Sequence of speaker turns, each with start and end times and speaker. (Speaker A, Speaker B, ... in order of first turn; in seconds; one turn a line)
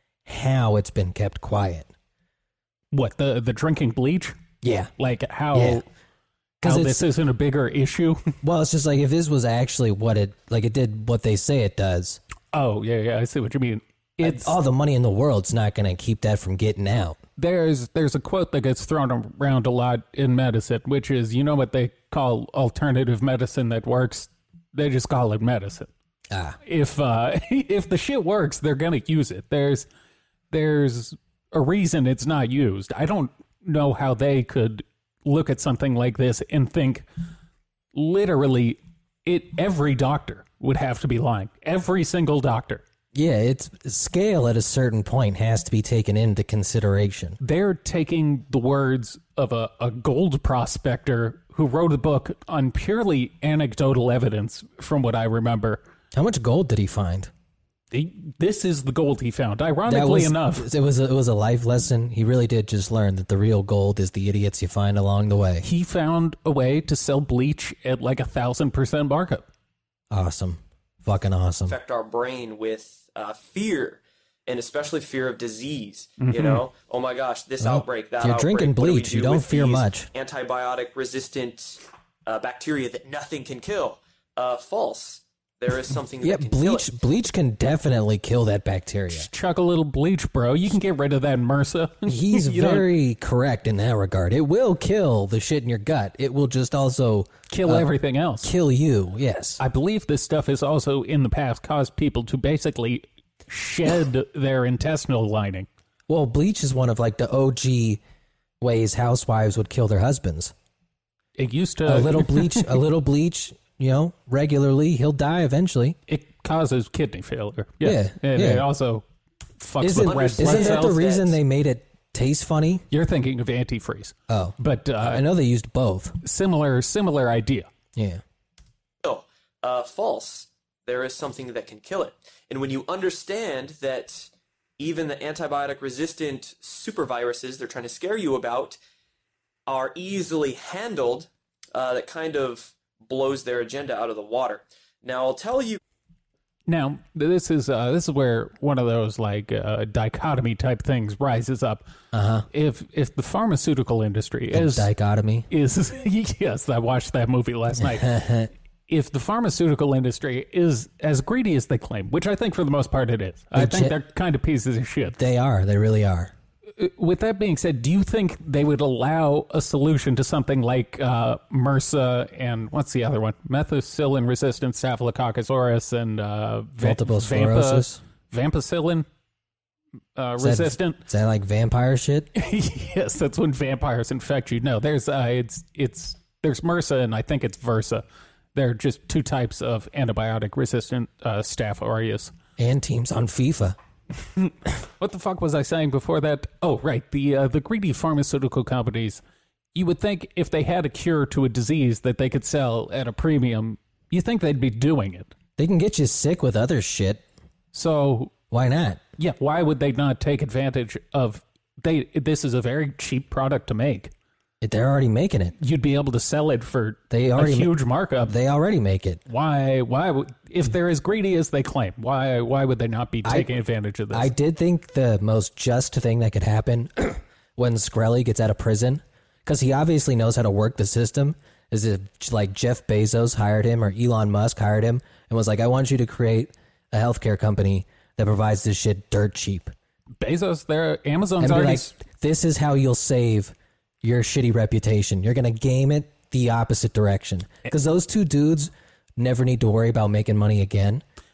Speaker A: 0.2-1.9
Speaker B: 2.9-4.3
Speaker A: 4.6-4.9
Speaker B: 5.0-5.8
Speaker A: 5.5-5.8
Speaker B: 6.6-8.3
Speaker A: 6.6-7.0
Speaker A: 8.4-12.2
Speaker B: 12.5-14.6
Speaker A: 14.2-17.2
Speaker B: 17.4-25.9
Speaker A: 26.3-26.6
Speaker B: 26.6-29.9
Speaker B: 30.5-37.0
Speaker B: 37.9-42.8
Speaker A: 43.1-47.4
Speaker B: 47.4-55.8
Speaker A: 56.1-57.3
Speaker B: 57.9-60.7
Speaker A: 59.9-65.7
Speaker B: 65.6-69.4
Speaker A: 70.1-71.8
Speaker C: 71.7-86.9
Speaker B: 76.2-76.6
Speaker A: 77.6-80.1
Speaker A: 86.2-89.3
Speaker B: 89.1-92.9
Speaker A: 92.0-97.8
Speaker B: 97.5-98.5
Speaker A: 98.4-99.6
Speaker B: 99.6-105.7
Speaker A: 106.1-108.0
Speaker A: 108.6-110.5
Speaker B: 111.4-112.7
Speaker A: 111.8-116.0
Speaker B: 116.1-119.0
Speaker A: 117.8-118.7
Speaker B: 119.6-121.0
Speaker A: 119.8-122.8
Speaker C: 120.0-121.3
Speaker B: 122.9-125.2
Speaker A: 124.3-126.2
Speaker B: 126.2-127.7
Speaker A: 128.0-128.2
Speaker C: 129.0-138.8
Speaker C: 139.7-145.8
Speaker B: 146.7-151.8
Speaker A: 152.1-152.4
Speaker B: 152.5-154.9
Speaker A: 154.5-155.5
Speaker B: 155.5-165.2
Speaker A: 157.8-158.5
Speaker A: 163.5-164.0
Speaker A: 165.2-166.3
Speaker B: 166.8-179.0
Speaker A: 176.8-178.0
Speaker B: 180.2-181.0
Speaker A: 180.4-182.3
Speaker B: 182.3-188.0
Speaker B: 188.5-192.3
Speaker A: 192.6-193.8
Speaker B: 194.3-199.2
Speaker B: 199.7-205.3
Speaker A: 205.6-207.2
Speaker B: 207.7-208.3
Speaker A: 208.5-209.0
Speaker B: 209.2-214.1
Speaker A: 214.6-215.6
Speaker B: 215.6-218.3
Speaker A: 217.1-217.7
Speaker A: 218.2-219.2
Speaker B: 219.3-224.3
Speaker A: 223.2-223.5
Speaker A: 224.1-239.7
Speaker B: 240.2-242.0
Speaker A: 241.4-251.0